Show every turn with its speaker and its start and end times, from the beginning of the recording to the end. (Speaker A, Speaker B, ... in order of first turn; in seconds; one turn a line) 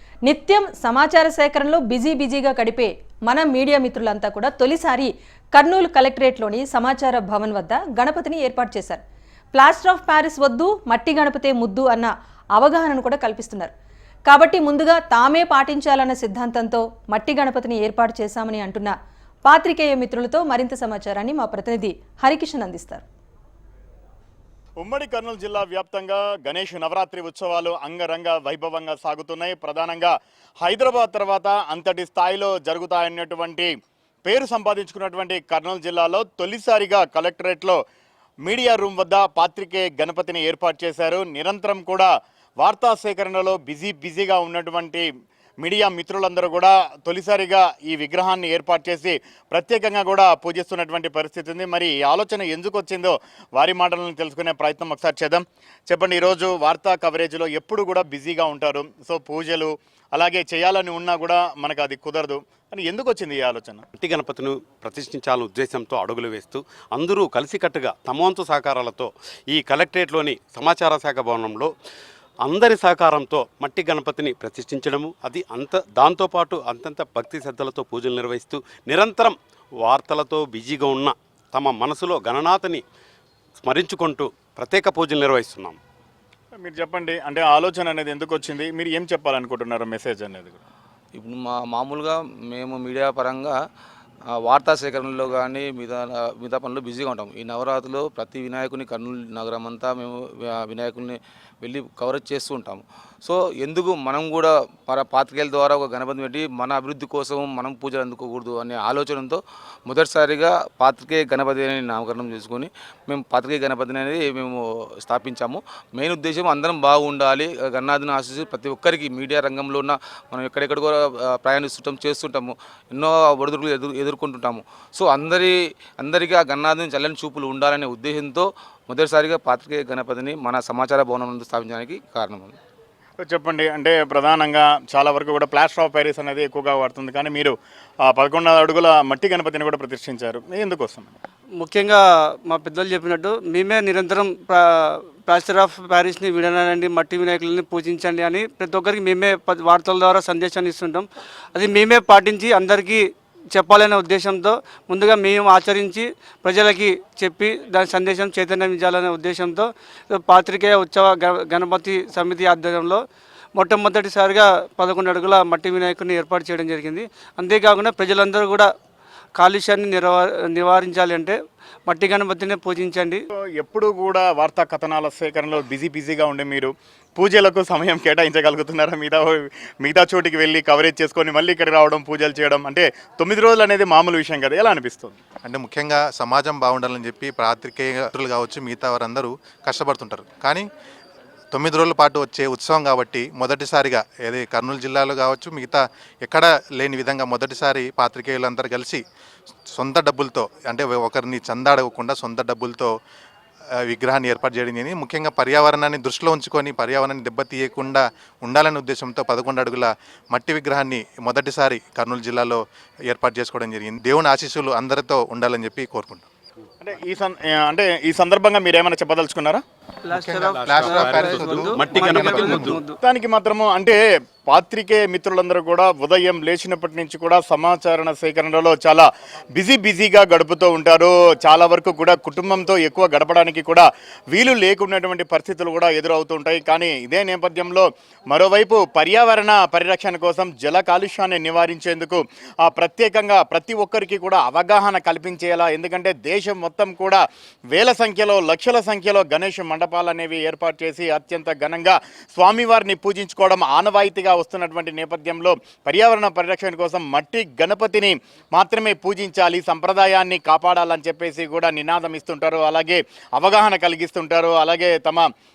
Speaker A: 0.2-9.0
Speaker A: 9.5-13.7
Speaker A: 14.2-23.0
Speaker B: 24.8-33.7
Speaker B: 34.2-37.8
Speaker B: 38.4-45.1
Speaker B: 45.6-63.8
Speaker C: 63.9-71.7
Speaker C: 72.4-82.8
Speaker C: 83.6-85.8
Speaker B: 86.6-90.6
Speaker D: 91.1-93.5
Speaker D: 94.3-132.6
Speaker B: 133.2-137.5
Speaker B: 138.1-141.1
Speaker E: 141.6-153.0
Speaker E: 153.5-163.0
Speaker E: 163.5-168.7
Speaker E: 169.3-173.2
Speaker B: 173.6-185.2
Speaker F: 185.4-190.7
Speaker F: 191.5-199.0
Speaker F: 199.7-202.9
Speaker F: 203.8-216.2
Speaker B: 216.8-219.6
Speaker E: 220.1-222.9
Speaker F: 220.1-222.8
Speaker C: 220.6-221.2
Speaker C: 221.7-222.8
Speaker B: 223.0-247.2
Speaker B: 247.7-265.3